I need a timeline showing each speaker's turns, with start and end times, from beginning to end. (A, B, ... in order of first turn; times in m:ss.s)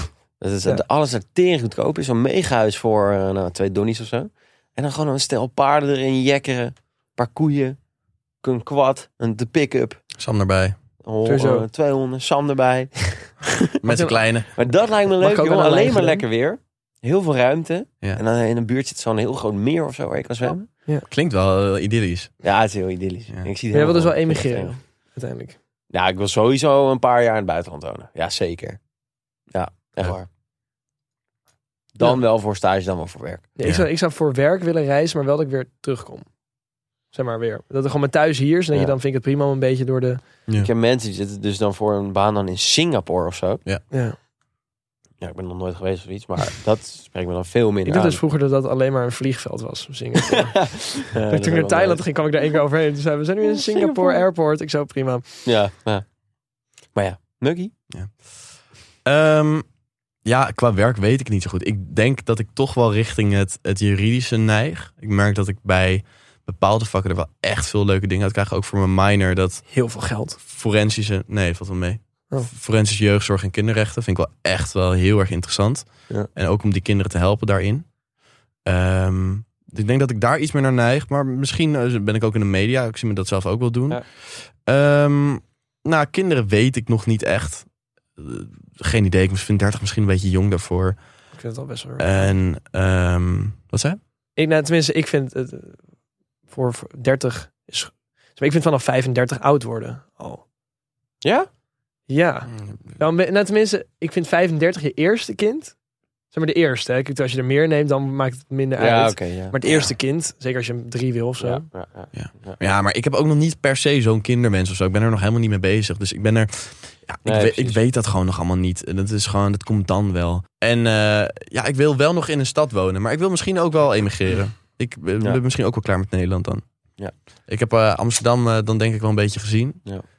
0:00.4-0:07.8 A
0:08.4-0:10.0 A
0:10.2-0:10.8 B
0:11.0-0:13.7 A
0:11.2-0:11.7 C
0:13.8-0:14.5 B
0:13.9-0:14.2 C
0:14.6-0:20.7 A
0:15.2-0:16.2 C
0:21.1-0:22.3 B
0:22.4-0:24.8 A
0:23.7-0:25.6 C
0:25.9-0:28.8 A
0:29.5-0:30.3 A
0:32.0-0:33.5 A
0:33.6-0:36.2 C
0:37.1-0:40.2 C
0:40.6-0:43.6 A
0:43.9-0:44.2 C
0:45.2-0:48.2 A
0:47.9-0:50.7 C
0:50.3-0:52.0 A
0:51.3-0:55.4 C
0:53.5-0:54.2 A
0:55.5-0:56.0 A
0:57.0-0:57.7 A
0:59.0-0:59.7 B
1:00.2-1:09.6 B
1:09.7-1:10.4 C
1:10.4-1:17.9 B
1:18.6-1:31.0 B
1:31.4-1:32.3 C
1:32.0-1:34.0 B
1:34.4-1:35.8 C
1:36.5-1:40.4 C
1:41.2-1:41.5 A
1:42.1-1:45.7 C
1:42.5-1:43.0 B
1:46.3-1:51.6 C
1:48.8-1:49.9 A
1:51.4-1:52.6 A
1:52.1-2:06.6 B
1:57.2-1:57.8 A
2:07.5-2:09.8 B